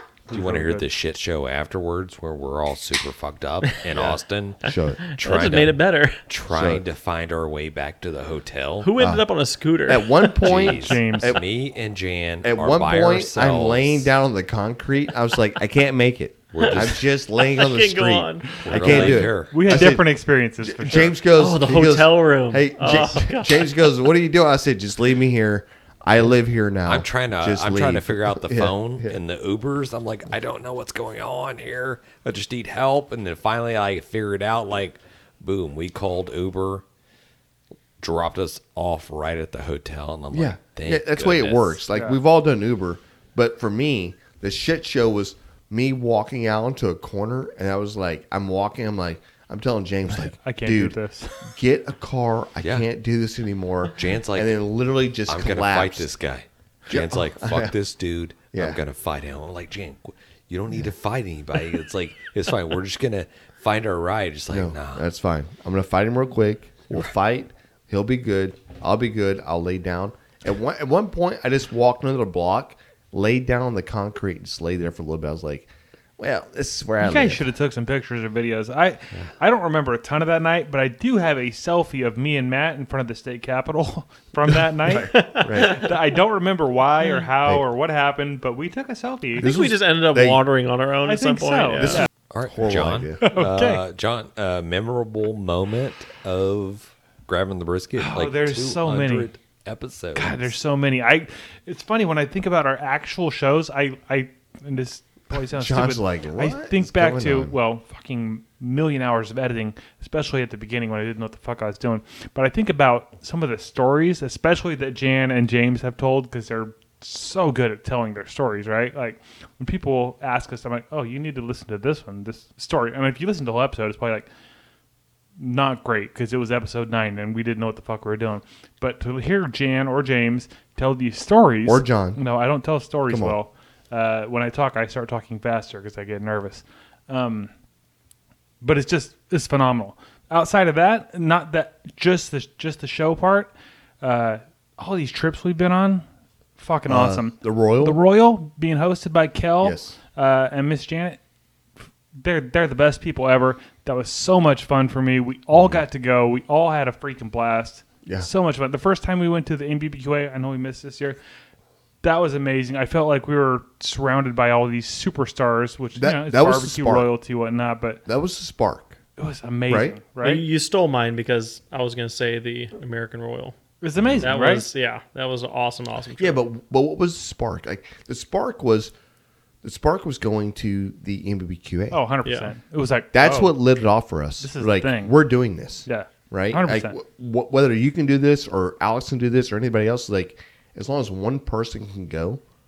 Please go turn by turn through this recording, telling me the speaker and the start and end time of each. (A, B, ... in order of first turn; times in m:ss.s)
0:00.3-0:00.8 A
0:00.3-0:04.6 B
0:04.6-0:05.0 C
0:04.6-0:06.2 D
0:05.1-0:08.9 B
0:06.5-0:06.8 C
0:08.8-0:10.5 D
0:09.0-0:09.3 C
0:09.8-0:11.4 C
0:10.4-0:14.1 B
0:10.8-0:11.4 A
0:12.4-0:29.2 C
0:16.5-0:17.0 B
0:16.6-0:19.2 D
0:18.6-0:19.6 B
0:19.5-0:21.2 A
0:21.3-0:23.7 D
0:26.9-0:36.8 B
0:38.0-0:41.8 B
0:40.3-0:56.1 C
0:50.1-0:51.5 A
0:53.9-0:54.5 B
0:55.3-1:05.0 B
0:56.9-0:57.7 C
0:58.5-0:58.8 C
1:04.5-1:17.4 C
1:17.0-1:29.5 A
1:24.9-1:25.8 C
1:25.1-1:25.8 D
1:29.4-1:32.0 D
1:29.4-1:30.4 C
1:31.0-1:32.1 A
1:31.8-1:33.3 C
1:32.3-1:40.5 B
1:33.2-1:33.8 A
1:38.0-1:39.3 A
1:40.1-2:04.3 A
1:45.3-1:47.6 C
2:05.4-2:17.5 A
2:11.6-2:12.2 C
2:13.1-2:13.4 C
2:18.6-2:26.0 A
2:26.6-2:31.2 A
2:26.9-2:28.0 C
2:29.6-2:30.0 C
2:32.2-2:41.2 A
2:42.0-2:48.0 A
2:46.0-2:47.1 C
2:48.0-2:49.0 C
2:49.2-2:50.4 A
2:49.7-2:50.0 C
2:50.2-2:53.6 D
2:53.8-2:54.6 A
2:54.2-2:56.4 D
2:56.2-2:58.9 C
2:59.6-3:02.0 C
3:01.9-3:03.6 A
3:02.2-3:02.5 D
3:03.1-3:12.4 C
3:04.4-3:05.2 A
3:05.9-3:07.0 A